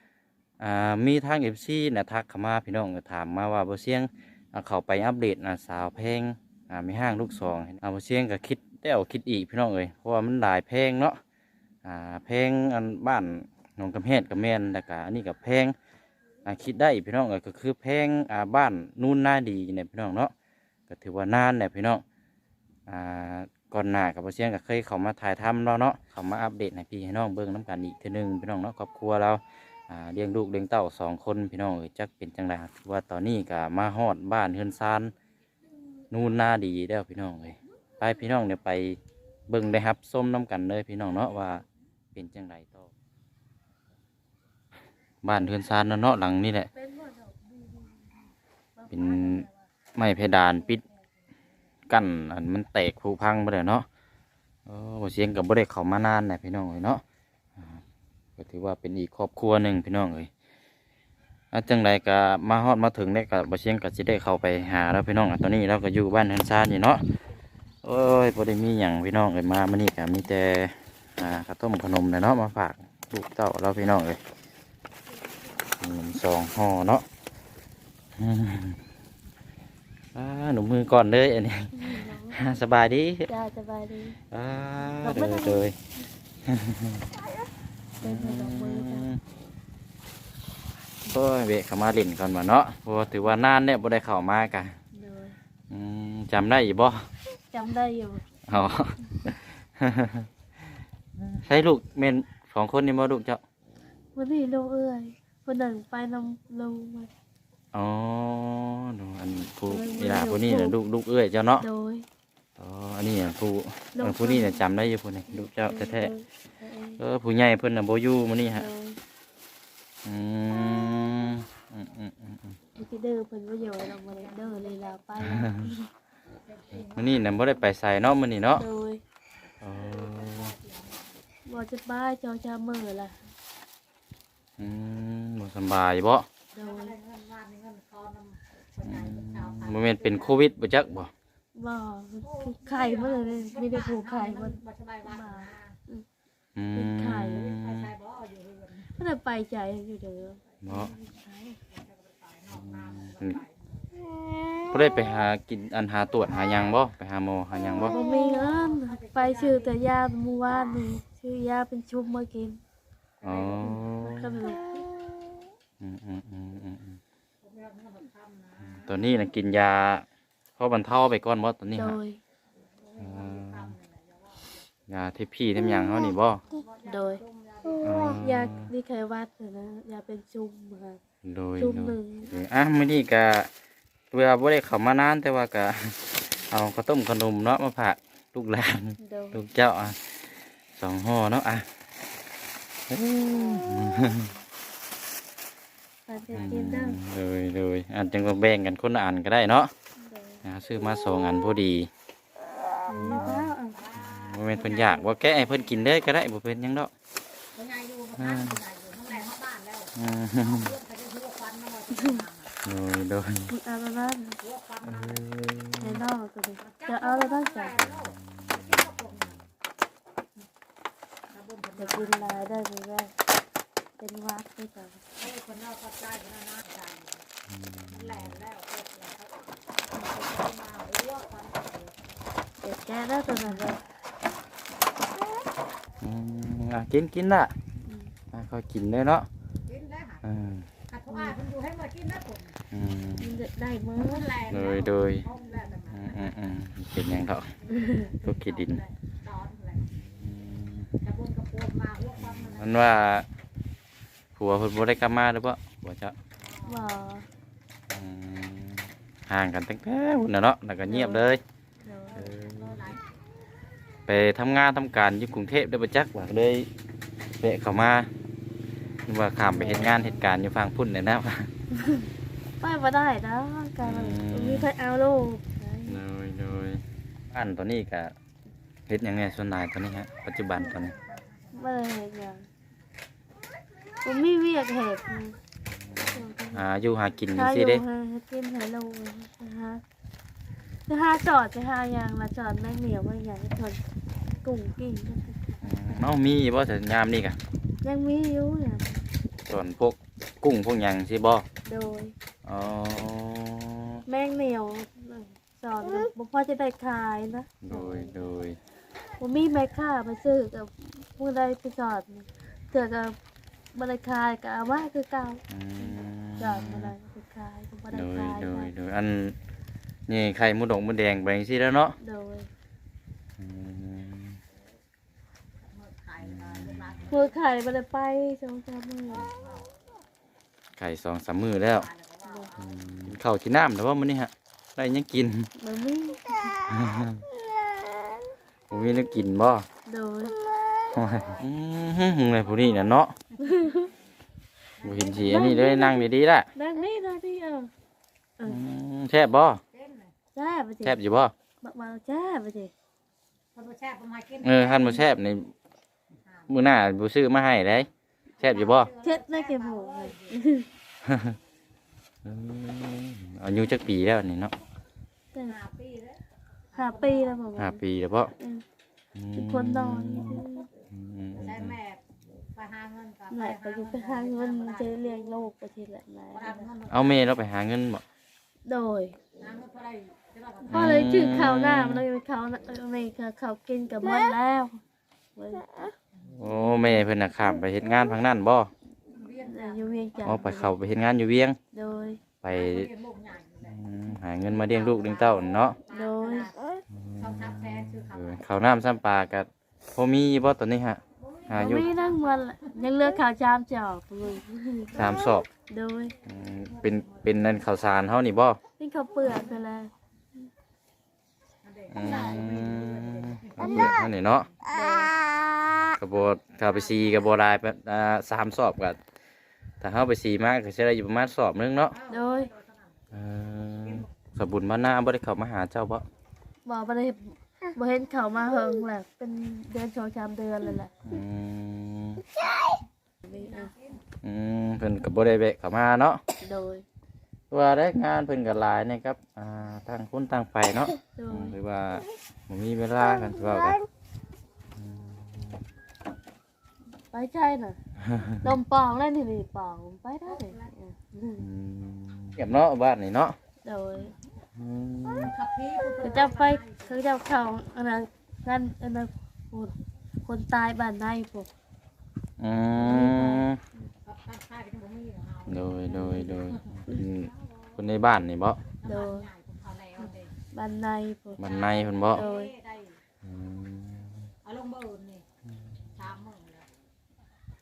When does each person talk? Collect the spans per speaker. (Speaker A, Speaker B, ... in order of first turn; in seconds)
Speaker A: 0.6-11.2, 11.8-15.7, 16.4-20.3, 20.9-22.0, 22.9-35.1, 36.1-41.6, 42.1-42.9, 45.2-46.7, 48.9-50.8, 51.9-53.9, 54.7-57.0, 58.4-60.3, 61.5-67.0, 67.8-74.2, 75.8-77.0, 78.2-78.8, 80.1-83.3, 84.3-85.7, 86.5-87.0, 88.0-89.2, 91.0-94.8, 95.7-97.0, 98.5-100.3, 101.3-103.4, 107.7-111.7, 112.6-116.1, 117.0-118.7, 120.0-122.5, 125.2-125.7, 126.9-128.6, 129.6-130.5, 134.6-136.2, 138.8-141.1, 146.6-147.9, 150.6-150.9, 152.5-153.4, 154.7-157.9, 163.2-164.4, 165.8-167.0, 168.7-170.0, 170.6-172.0, 173.0-173.7, 174.9-176.4, 177.8-178.7, 181.2-183.5, 184.1-191.7, 192.9-194.3, 196.3-199.7, 200.4-201.9, 202.9-206.9, 208.2-208.6, 209.9-210.8, 212.6-213.5, 214.8-216.0, 217.8-218.9, 227.5-228.4, 233.5-233.8, 236.0-237.5, 238.3-239.3, 240.2-240.7, 242.7-243.3, 244.5-245.2, 245.9-247.5, 248.2-248.8, 250.0-250.9, 252.2-253.3, 254.3-256.1, 257.9-261.4, 262.1-262.9, 264.1-266.7, 267.4-268.1, 269.1-271.5, 273.8-274.7, 275.9-278.1, 278.9-280.9, 285.7-287.8, 295.6-297.4, 299.5-301.4, 302.4-304.0, 307.6-308.6, 315.5-316.9, 317.9-319.4, 320.1-321.9, 323.4-324.4, 326.2-327.0, 330.7-331.9, 332.6-335.5, 336.7-337.2, 338.7-339.6, 340.9-343.1, 344.8-346.5, 348.4-349.6, 350.8-351.3, 354.4-355.5, 356.5-357.9, 358.4-358.9, 361.0-361.4, 362.2-364.5, 367.6-368.3, 369.1-371.8, 376.9-378.0, 380.7-382.0, 386.3-388.7, 390.2-391.6, 392.4-392.9, 393.6-395.8, 396.9-401.9, 404.9-405.5, 406.2-408.6, 411.9-414.5, 415.9-419.0, 419.8-421.9, 423.1-426.0, 431.0-432.2, 434.2-436.2, 437.5-443.8, 444.8-445.6, 448.1-448.4, 451.4-453.4, 454.5-455.3, 462.4-463.6, 465.5-468.6, 471.4-472.2, 473.2-474.2
Speaker B: 46.8-47.5, 48.8-49.5, 81.7-82.4, 83.3-84.2, 85.0-85.6, 88.0-89.1, 94.9-95.3, 97.5-98.2, 104.1-107.1, 109.7-110.8, 111.6-112.0, 113.9-114.6, 115.4-117.0, 118.5-119.0, 122.7-125.9, 128.5-129.0, 131.4-133.1, 136.6-136.9, 141.5-146.0, 146.7-147.5, 148.9-151.6, 157.8-162.6, 163.7-164.8, 171.7-172.2, 176.8-177.2, 178.2-181.0, 181.6-182.3, 189.0-189.4, 196.1-197.0, 200.0-200.4, 202.9-203.8, 211.9-212.2, 213.5-214.4, 215.8-217.8, 221.8-223.1, 224.0-225.0, 232.6-233.8, 241.1-241.4, 243.2-244.3, 247.7-248.1, 256.6-257.2, 260.9-261.2, 261.9-262.1, 269.5-270.2, 271.8-272.0, 272.6-276.0, 281.5-282.4, 284.0-285.4, 286.1-286.6, 287.3-289.8, 290.9-293.8, 294.4-295.6, 297.8-299.0, 301.6-302.1, 304.1-308.1, 309.2-313.1, 313.7-318.7, 322.0-322.5, 327.1-329.2, 335.6-336.6, 339.9-340.3, 343.4-343.9, 345.2-347.7, 350.3-351.0, 351.6-352.7, 359.0-360.7, 366.8-367.8, 368.4-368.6, 369.3-370.7, 373.3-376.7, 378.6-379.2, 380.7-384.8, 385.4-385.9, 386.5-387.0, 389.4-390.8, 391.7-392.2, 395.9-396.5, 401.5-406.1, 408.8-409.9, 413.6-413.9, 414.7-415.1, 422.1-422.5, 426.6-430.9, 433.2-433.7, 436.4-436.8, 441.1-441.5, 447.1-447.8, 448.3-451.4, 453.6-454.1, 455.9-459.7, 460.2-461.5, 468.8-469.3, 470.5-471.4, 472.1-472.5
Speaker C: 124.1-125.2, 126.4-127.6, 129.7-131.1, 136.6-140.4, 142.2-145.7, 147.3-148.9, 151.7-153.6, 158.0-159.7, 163.2-163.7, 167.4-168.9, 172.9-174.4, 176.5-178.1, 203.7-205.8, 207.5-212.6, 214.4-215.2, 216.6-219.4, 221.3-222.4, 225.2-227.2, 227.9-231.9, 239.7-240.2, 240.9-242.5, 244.0-246.3, 247.7-249.8, 251.0-252.7, 256.5-256.8, 262.1-263.0, 325.7-327.4, 329.3-329.6, 331.8-332.9, 344.8-345.5, 349.7-350.1, 353.5-355.0, 358.4-360.4, 365.5-366.2, 366.7-367.4, 371.4-372.0, 372.5-375.1, 376.3-377.2, 379.4-380.9, 389.1-389.9, 392.5-393.8, 394.4-396.5, 397.1-398.4, 401.2-402.7, 406.6-407.4, 411.6-413.9, 416.4-417.2, 421.9-422.8, 433.3-434.0, 450.2-450.7, 455.2-456.9, 462.8-463.5, 464.0-466.5, 468.8-470.3, 471.4-473.0, 474.4-475.2, 475.9-476.7